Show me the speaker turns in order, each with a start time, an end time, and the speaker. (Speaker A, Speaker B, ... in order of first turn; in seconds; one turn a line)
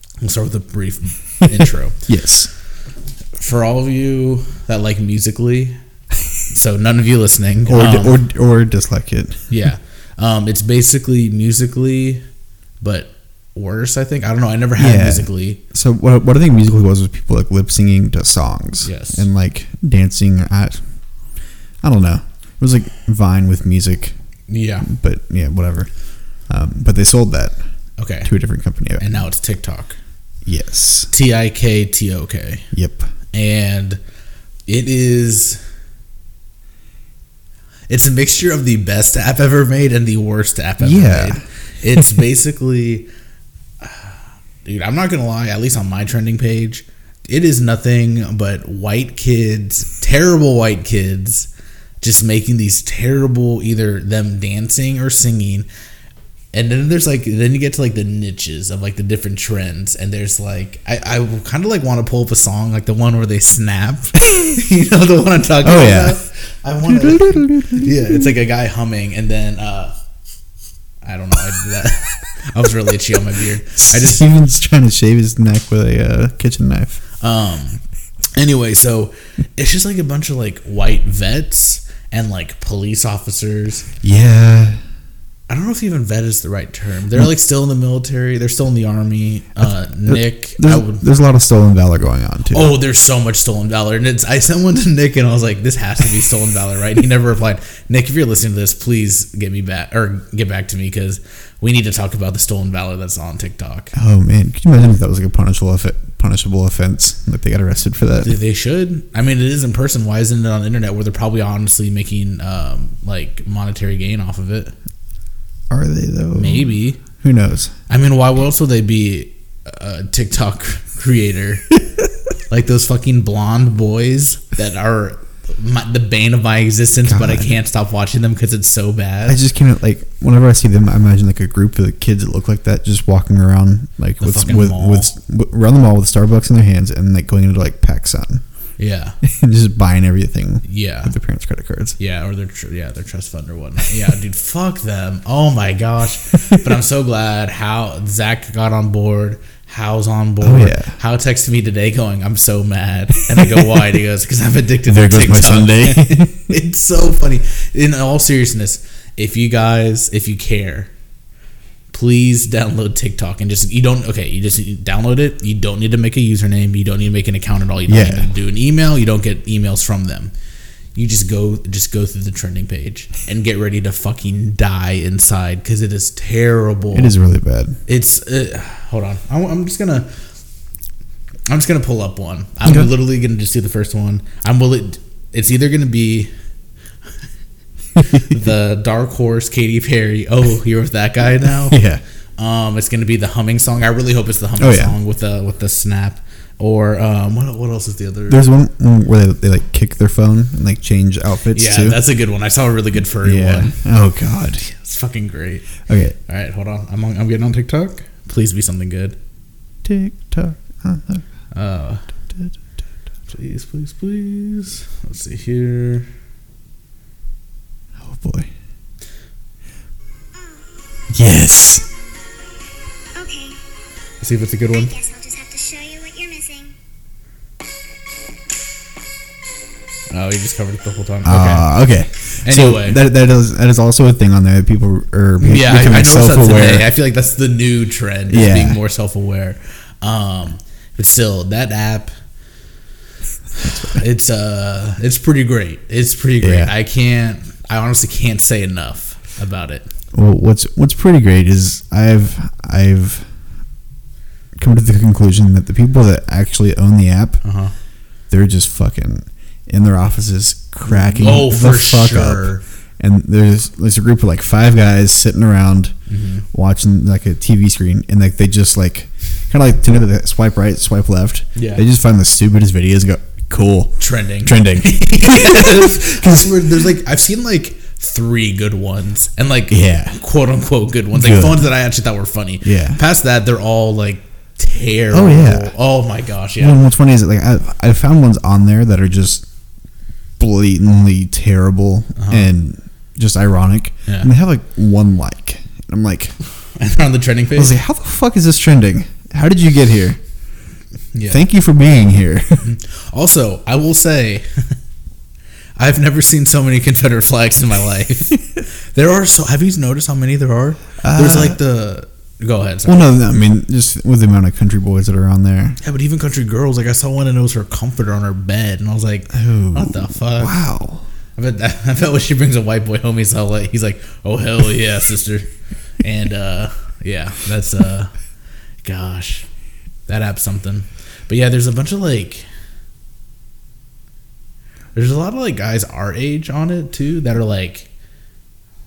Speaker A: 0.2-2.1
Speaker B: 2.1-2.5
Speaker A: 3.4-5.8
Speaker A: 6.5-8.2
Speaker B: 7.7-9.5
Speaker A: 9.5-12.2
Speaker A: 12.8-15.6
Speaker B: 14.8-20.8
Speaker A: 18.8-19.3
Speaker B: 21.8-24.1
Speaker A: 24.5-24.9
Speaker B: 24.8-25.9
Speaker B: 26.4-27.6
Speaker A: 28.0-28.3
Speaker B: 28.2-29.1
Speaker A: 29.0-30.0
Speaker B: 30.4-31.1
Speaker A: 31.1-32.7
Speaker B: 32.7-33.1
Speaker A: 33.3-34.0
Speaker A: 34.7-35.6
Speaker A: 37.9-43.1
Speaker B: 40.8-41.4
Speaker A: 43.8-51.5
Speaker A: 52.0-55.7
Speaker A: 56.5-69.9
Speaker B: 65.6-66.2
Speaker B: 66.8-68.2
Speaker A: 71.0-74.3
Speaker B: 73.8-77.0
Speaker A: 77.2-77.8
Speaker A: 78.3-83.9
Speaker B: 84.0-84.8
Speaker A: 85.5-91.0
Speaker B: 89.6-92.7
Speaker A: 92.5-103.9
Speaker B: 103.9-108.3
Speaker A: 108.2-114.7
Speaker B: 115.7-117.7
Speaker A: 116.3-117.0
Speaker A: 117.9-121.7
Speaker A: 122.5-129.4
Speaker B: 127.0-127.5
Speaker B: 129.2-138.4
Speaker A: 134.2-135.1
Speaker A: 138.8-139.2
Speaker B: 139.2-142.0
Speaker A: 140.6-141.1
Speaker A: 142.0-160.9
Speaker B: 150.4-150.9
Speaker B: 153.4-153.7
Speaker B: 154.8-156.5
Speaker A: 161.9-170.3
Speaker B: 167.9-168.3
Speaker A: 170.9-177.1
Speaker B: 176.9-177.8
Speaker A: 177.9-180.1
Speaker A: 181.5-186.3
Speaker B: 182.6-182.9
Speaker B: 188.0-188.3
Speaker A: 188.1-191.8
Speaker B: 191.7-192.0
Speaker A: 192.4-198.4
Speaker B: 194.6-194.9
Speaker B: 198.3-202.0
Speaker A: 201.5-203.8
Speaker B: 203.2-204.7
Speaker A: 204.6-205.7
Speaker B: 205.9-206.2
Speaker A: 206.3-209.2
Speaker B: 209.8-211.2
Speaker A: 211.5-212.1
Speaker A: 213.3-216.1
Speaker B: 218.0-218.5
Speaker C: 220.3-220.7
Speaker B: 221.1-221.9
Speaker C: 223.1-223.6
Speaker A: 224.2-224.9
Speaker C: 224.7-226.7
Speaker A: 230.1-231.7
Speaker B: 231.2-236.9
Speaker A: 232.4-233.0
Speaker A: 235.4-242.1
Speaker B: 238.3-238.8
Speaker B: 243.7-243.9
Speaker A: 243.8-249.9
Speaker B: 246.4-246.7
Speaker B: 250.1-253.3
Speaker B: 254.6-257.4
Speaker A: 257.4-257.7
Speaker B: 258.3-265.9
Speaker A: 260.9-262.6
Speaker A: 266.1-266.4
Speaker B: 266.5-276.6
Speaker A: 271.5-271.8
Speaker A: 274.0-286.8
Speaker B: 279.7-280.2
Speaker B: 281.1-281.7
Speaker B: 282.6-283.0
Speaker B: 285.1-285.7
Speaker B: 286.6-289.4
Speaker B: 290.4-296.3
Speaker A: 292.1-292.5
Speaker A: 296.7-297.7
Speaker B: 297.5-300.2
Speaker A: 301.1-301.4
Speaker B: 301.3-302.7
Speaker A: 302.6-304.8
Speaker A: 305.8-313.1
Speaker B: 311.0-311.6
Speaker B: 312.8-315.8
Speaker A: 315.8-320.6
Speaker B: 319.3-321.1
Speaker A: 321.4-325.5
Speaker A: 326.0-328.1
Speaker A: 328.8-329.4
Speaker A: 330.1-332.4
Speaker A: 334.9-337.9